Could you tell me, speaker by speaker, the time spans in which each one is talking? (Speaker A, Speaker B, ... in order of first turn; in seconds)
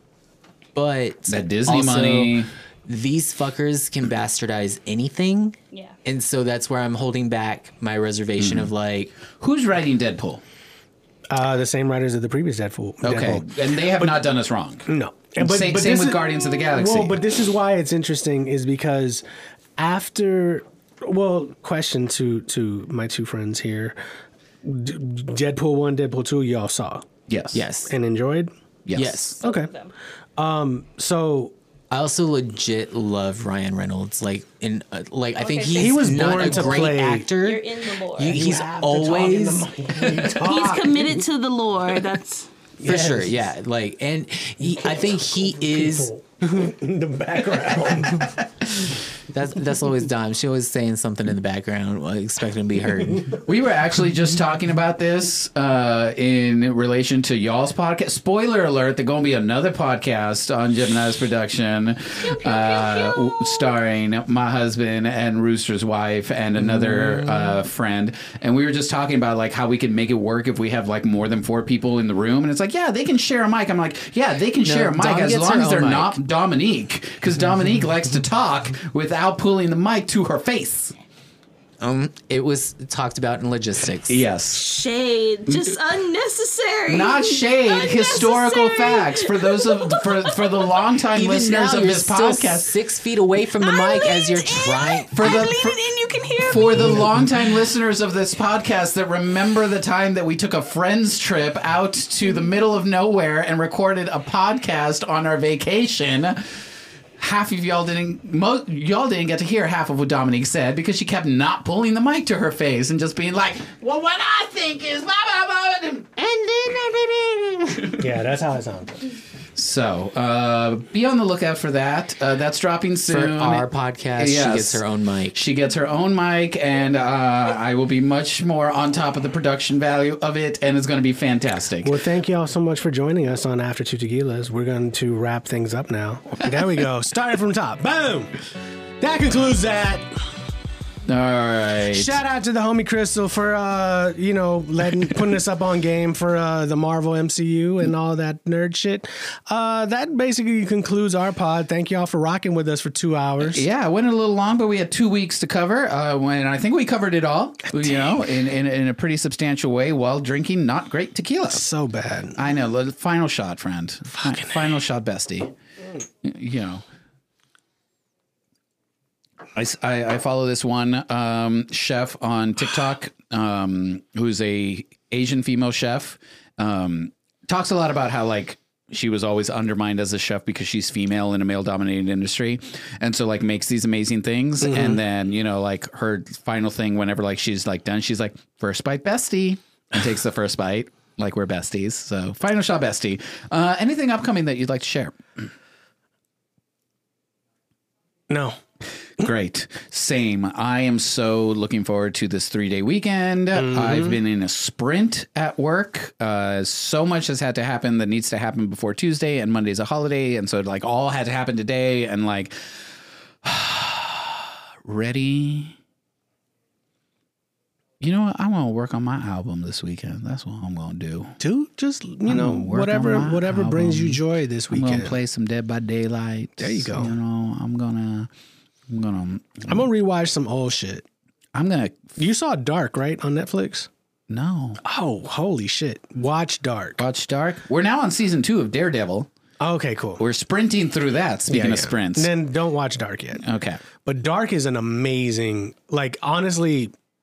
Speaker A: 0.7-9.2, 27.5-27.9, 28.9-29.4, 31.9-39.7, 42.8-46.1, 47.7-48.4, 49.3-53.4, 66.6-67.6, 74.6-76.2, 81.8-84.2, 91.1-95.3, 123.1-125.4
Speaker B: 1.3-2.5, 8.4-8.7, 9.3-10.4, 13.0-14.8, 15.4-17.2, 27.3-27.6, 28.9-29.3, 53.4-80.9, 84.1-84.6, 85.5-85.7, 86.9-92.7, 95.1-95.8, 96.4-106.6, 107.2-118.1, 119.5-131.9, 141.1-142.2, 153.5-161.6, 162.3-165.5, 166.2-166.8, 169.6-195.2, 199.2-212.8, 213.4-215.8, 218.0-221.4, 222.2-228.3, 228.9-229.8, 231.5-232.2, 234.3-234.8, 237.0-239.3, 240.2-242.3, 243.4-243.8
Speaker C: 5.7-6.0, 29.4-29.9, 35.3-38.6, 40.3-42.5, 62.2-63.7, 84.5-90.7, 93.6-97.1
Speaker D: 11.3-14.2, 14.8-19.2, 19.8-24.0, 24.6-27.1, 27.9-28.5, 29.4-29.7, 30.4-31.5, 35.7-37.3, 38.2-41.2, 42.8-43.5, 44.6-48.3, 118.0-119.0, 131.8-138.4, 139.0-140.1, 141.9-153.6, 161.5-162.4, 184.6-185.0, 198.3-198.6, 203.5-204.2, 221.4-225.2, 226.6-227.2, 229.7-231.0, 232.2-233.9, 234.8-237.0, 239.6-240.2, 241.5-243.4, 244.0-246.9